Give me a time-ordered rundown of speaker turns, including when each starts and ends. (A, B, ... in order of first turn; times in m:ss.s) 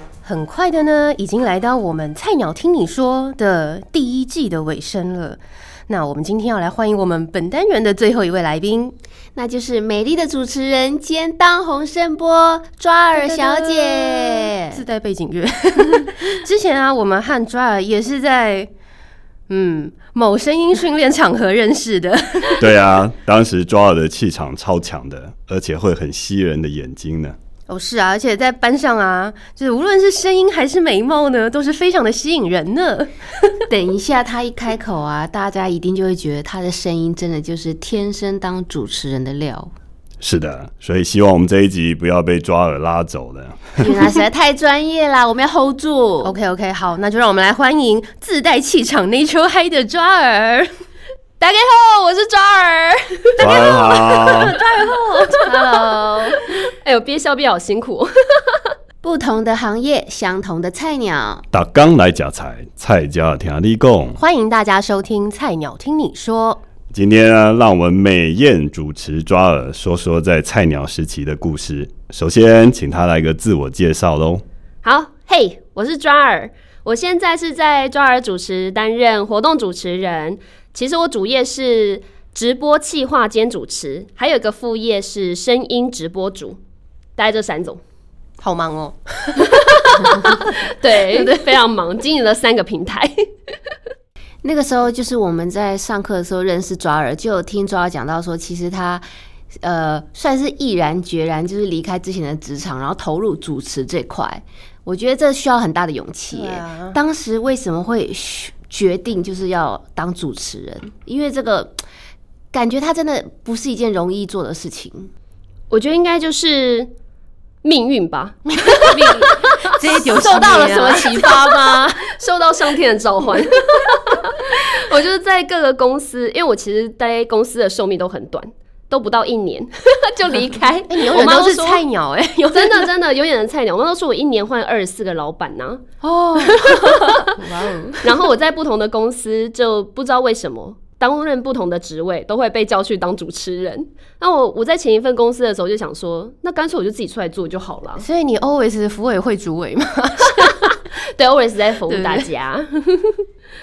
0:00.2-0:08.9 A
0:09.4-0:14.8 B
0:13.2-0:18.7 A
0:19.5-0:22.6 A
0:22.6-0:27.4 C
0:27.7-0:33.6 A
0:33.7-0:39.7 B
0:40.2-0:43.9 C
0:43.8-0:46.3 B
0:46.2-0:50.7 A
0:51.4-0:53.4 D
0:53.4-0:54.6 C
0:53.4-0:55.5 A
0:55.4-0:56.4 B
0:56.7-0:58.6 D
0:59.0-1:01.4 B
1:01.5-1:04.2 C
1:04.2-1:06.6 A
1:06.9-1:14.4 C
1:14.8-1:26.6 D
1:27.2-1:27.8 D
1:28.4-1:30.4 A
1:29.6-1:33.2 D
1:31.1-1:31.4 A
1:34.4-1:39.0 B
1:39.6-1:51.8 B
1:46.3-1:47.0 A
1:52.5-1:55.1 B
1:55.7-1:56.9 D
1:57.6-2:11.8 D
1:58.9-1:59.2 B
1:59.6-2:01.1 A
1:59.9-2:02.0 B
2:10.9-2:12.9 A
2:12.5-2:15.8 D
2:16.0-2:18.0 A
2:16.4-2:17.4 D
2:18.0-2:28.0 D
2:28.0-2:30.6 A
2:30.4-2:33.2 D
2:31.9-2:32.3 A